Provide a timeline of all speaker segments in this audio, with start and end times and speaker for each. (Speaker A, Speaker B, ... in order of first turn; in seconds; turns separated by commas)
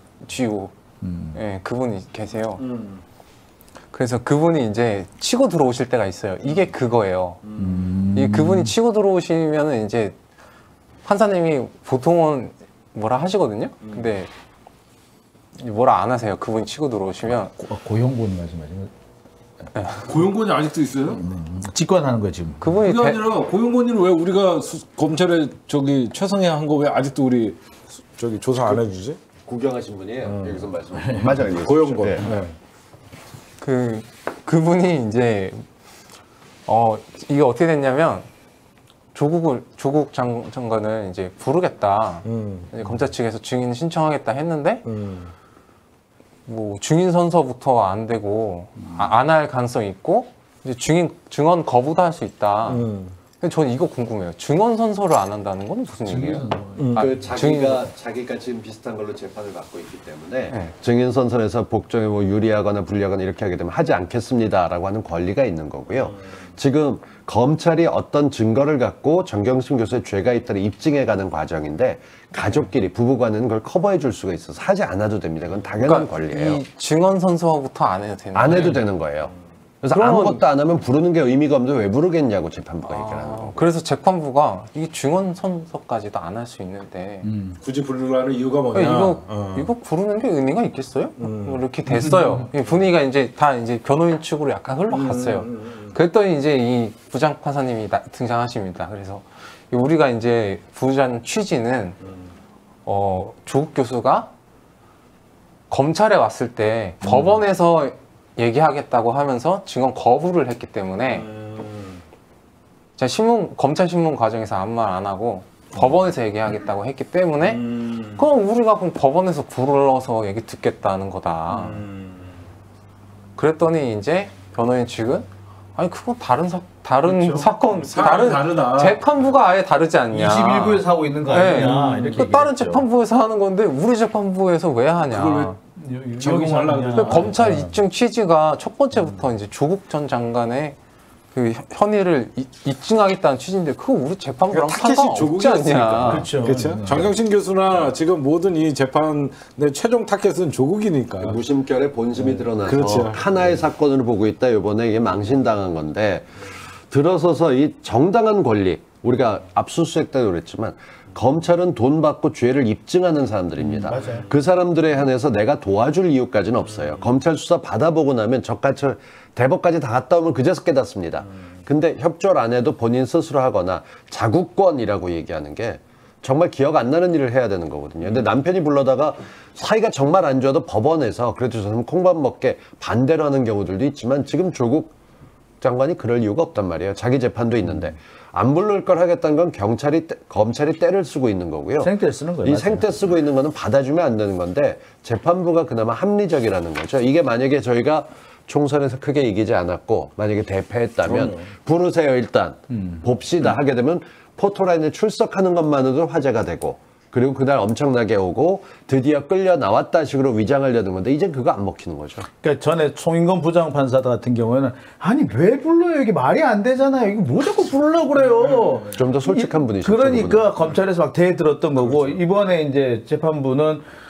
Speaker A: 0.2-0.7, Speaker B: 1.0-1.4, Speaker A: 1.3-2.6, Speaker C: 2.6-3.0, Speaker A: 3.9-7.4, Speaker C: 7.4-8.1, Speaker B: 7.6-8.7, Speaker A: 8.1-10.1, Speaker A: 11.0-14.3, Speaker A: 15.6-17.5, Speaker B: 17.6-18.9, Speaker A: 19.8-20.1, Speaker C: 20.0-21.2, Speaker B: 21.1-22.7, Speaker A: 22.6-23.2, Speaker C: 22.8-29.2, Speaker D: 29.4-32.3, Speaker C: 30.2-32.5, Speaker B: 31.0-31.4, Speaker A: 33.6-35.6, Speaker A: 36.7-38.3, Speaker A: 39.1-44.8, Speaker C: 42.2-42.7, Speaker C: 44.8-45.3, Speaker A: 46.5-52.9, Speaker C: 52.6-53.1, Speaker A: 53.4-57.9, Speaker B: 56.0-57.1, Speaker C: 56.8-57.1, Speaker D: 56.9-76.6, Speaker A: 60.5-60.7, Speaker A: 75.8-78.9, Speaker D: 78.3-83.6, Speaker A: 79.9-80.4, Speaker A: 82.8-87.3, Speaker B: 87.2-87.6, Speaker C: 87.6-89.7, Speaker A: 88.7-102.0, Speaker C: 91.2-91.6, Speaker B: 91.9-92.5, Speaker C: 94.9-95.9, Speaker A: 102.9-104.3, Speaker A: 105.7-111.3, Speaker C: 111.2-112.0, Speaker A: 113.0-121.9, Speaker C: 121.5-122.2, Speaker A: 123.4-135.6, Speaker B: 127.1-127.5, Speaker C: 127.8-129.0, Speaker B: 130.1-132.9, Speaker C: 135.1-135.6, Speaker B: 135.8-137.8, Speaker C: 136.2-137.4, Speaker A: 136.9-140.8, Speaker A: 141.3-146.3, Speaker C: 144.5-151.4, Speaker B: 146.0-147.1, Speaker D: 151.2-184.9, Speaker C: 152.2-153.6, Speaker B: 163.8-164.3, Speaker D: 185.6-191.9, Speaker B: 191.8-193.0, Speaker D: 192.4-212.3, Speaker C: 201.0-201.5, Speaker B: 202.7-203.0, Speaker B: 212.4-223.8, Speaker C: 218.2-218.9, Speaker D: 218.9-220.5, Speaker C: 221.8-222.2